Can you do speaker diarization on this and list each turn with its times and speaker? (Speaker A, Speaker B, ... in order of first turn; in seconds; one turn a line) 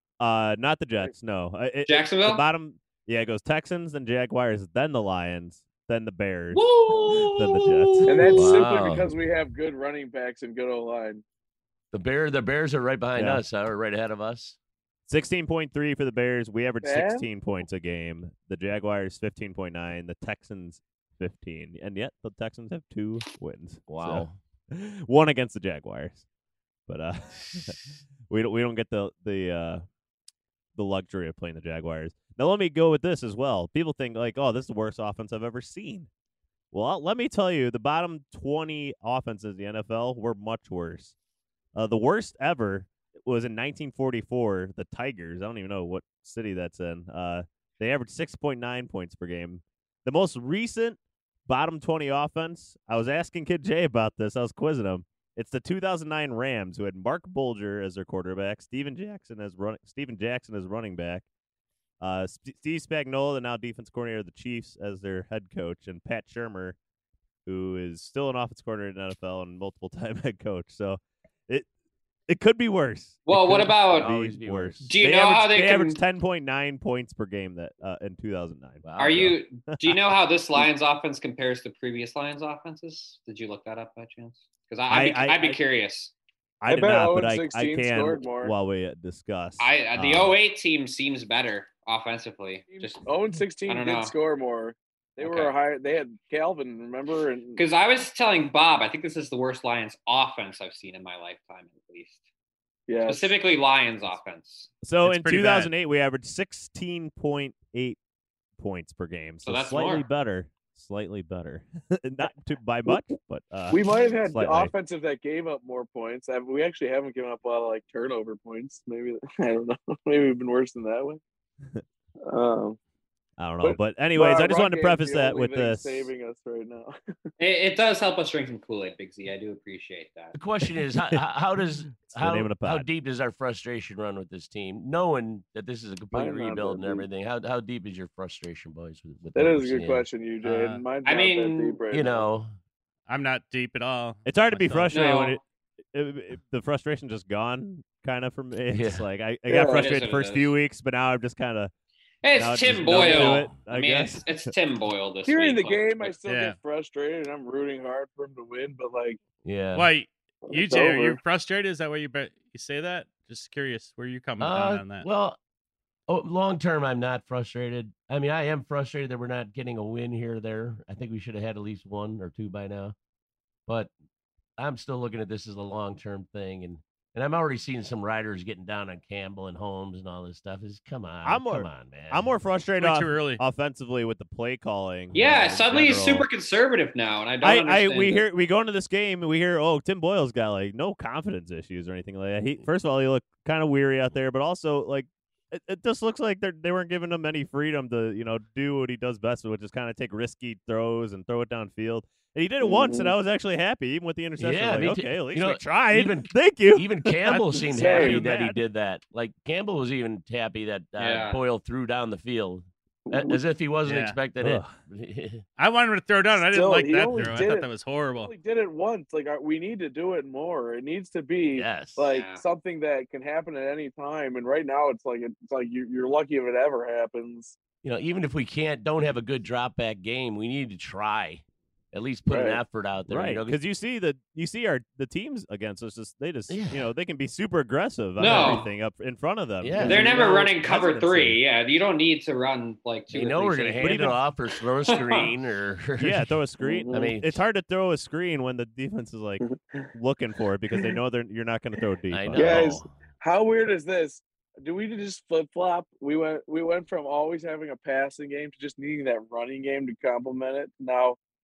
Speaker A: 0.2-8.4
Speaker B: 1.9-2.4
Speaker B: 6.5-8.4
Speaker C: 8.1-11.2
Speaker D: 8.3-9.1
Speaker D: 11.9-14.6
Speaker A: 13.2-13.4
Speaker A: 15.1-26.2
Speaker C: 16.8-17.2
Speaker D: 23.9-24.4
Speaker A: 26.9-29.8
Speaker A: 30.7-36.1
Speaker A: 36.7-41.1
Speaker A: 41.7-61.2
Speaker A: 62.0-66.8
Speaker A: 67.5-71.7
Speaker A: 72.3-80.0
Speaker B: 73.2-74.1
Speaker D: 73.9-74.9
Speaker B: 74.8-76.0
Speaker D: 78.8-79.3
Speaker B: 79.0-86.1
Speaker A: 84.9-85.6
Speaker A: 86.6-90.3
Speaker C: 86.7-88.5
Speaker B: 89.6-93.0
Speaker C: 92.7-97.6
Speaker B: 93.7-94.1
Speaker B: 95.2-95.5
Speaker B: 97.5-102.2
Speaker C: 102.9-103.3
Speaker B: 103.1-104.7
Speaker A: 104.8-108.0
Speaker E: 105.0-105.7
Speaker A: 108.6-114.7
Speaker B: 109.4-110.1
Speaker C: 113.7-121.2
Speaker C: 122.2-122.8
Speaker A: 123.4-126.1
Speaker C: 123.6-126.9
Speaker B: 127.4-130.3
Speaker D: 130.3-140.1
Speaker A: 130.6-131.2
Speaker A: 131.9-132.9
Speaker C: 136.1-137.1
Speaker C: 139.3-142.3
Speaker E: 140.4-140.8
Speaker B: 141.0-141.8
Speaker D: 141.9-142.5
Speaker E: 143.1-144.9
Speaker A: 144.2-145.4
Speaker B: 144.9-145.4
Speaker A: 145.9-151.7
Speaker D: 148.7-149.0
Speaker C: 149.5-149.8
Speaker B: 149.7-150.5
Speaker B: 152.2-156.1
Speaker A: 152.3-154.5
Speaker C: 155.2-159.2
Speaker E: 156.2-156.6
Speaker D: 159.4-159.9
Speaker E: 159.7-165.1
Speaker C: 160.4-161.2
Speaker D: 164.4-165.4
Speaker D: 166.1-172.9
Speaker D: 173.7-173.9
Speaker D: 174.6-182.3
Speaker A: 181.2-186.3
Speaker E: 182.8-183.4
Speaker B: 185.1-188.2
Speaker A: 187.4-208.6
Speaker C: 202.6-203.1
Speaker D: 204.4-215.4
Speaker E: 207.3-207.6
Speaker C: 207.7-208.2
Speaker B: 211.0-211.4
Speaker C: 213.1-213.4
Speaker E: 213.8-214.2
Speaker A: 214.4-214.7
Speaker E: 215.6-218.3
Speaker C: 216.3-217.7
Speaker C: 218.2-227.6
Speaker D: 221.5-222.0
Speaker B: 222.1-222.4
Speaker D: 227.8-233.6
Speaker C: 232.3-232.6
Speaker A: 233.1-241.4
Speaker D: 236.5-236.9
Speaker B: 238.2-238.7
Speaker D: 238.2-238.6
Speaker D: 239.6-240.2
Speaker B: 239.8-244.2
Speaker D: 243.1-246.3
Speaker A: 243.8-244.2
Speaker B: 244.9-245.3
Speaker A: 246.0-249.4
Speaker C: 246.6-247.2
Speaker D: 246.9-247.3
Speaker C: 249.4-249.9
Speaker A: 249.9-252.7
Speaker D: 252.1-253.0
Speaker C: 252.3-261.2